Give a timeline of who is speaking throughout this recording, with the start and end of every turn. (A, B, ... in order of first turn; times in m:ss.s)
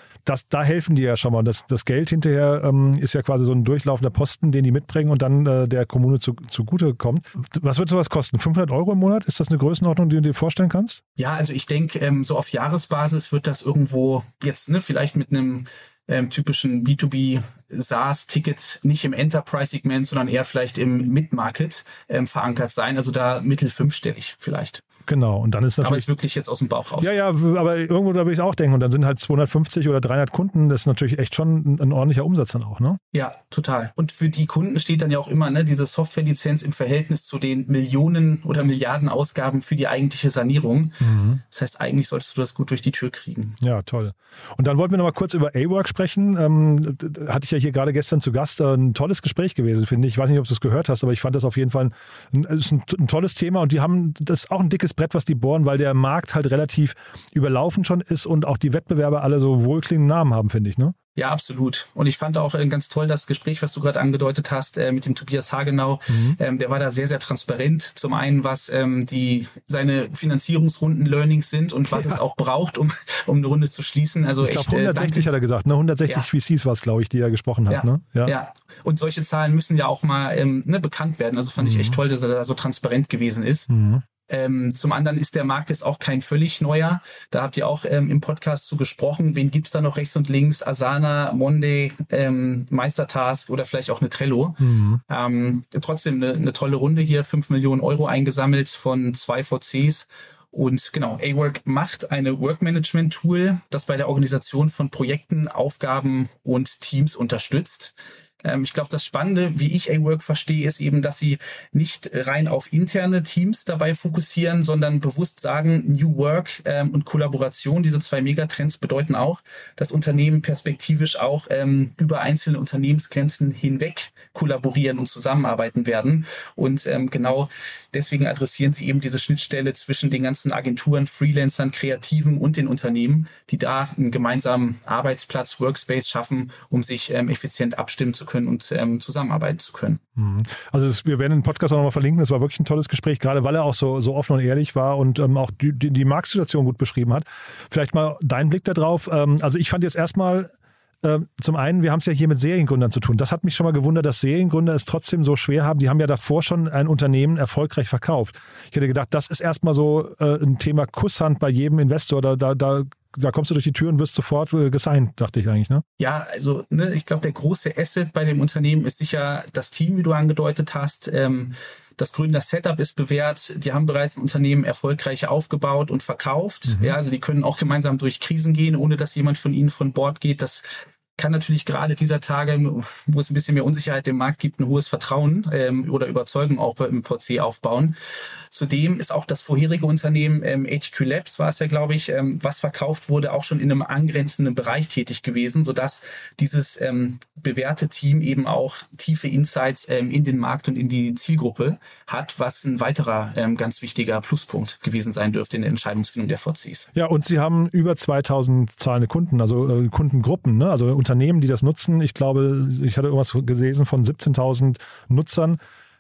0:00.2-0:11.0 A
0:11.2-0:24.8 B
0:25.1-0:26.1 A
0:25.8-0:27.2 B
0:27.0-0:33.0 A
0:33.1-0:43.6 B
0:41.0-0:41.4 A
0:43.6-1:01.0 A
1:01.2-1:15.3 B
1:06.1-1:06.4 A
1:11.9-1:12.2 A
1:14.4-1:18.4 A
1:17.7-1:23.7 B
1:21.6-1:22.0 A
1:23.7-1:24.0 A
1:24.3-2:20.0 B
1:34.6-1:35.0 A
2:20.2-2:30.5 A
2:31.0-2:45.8 A
2:46.0-3:08.0 B
2:56.7-2:57.0 A
3:08.5-3:26.9 B
3:26.9-3:35.6 A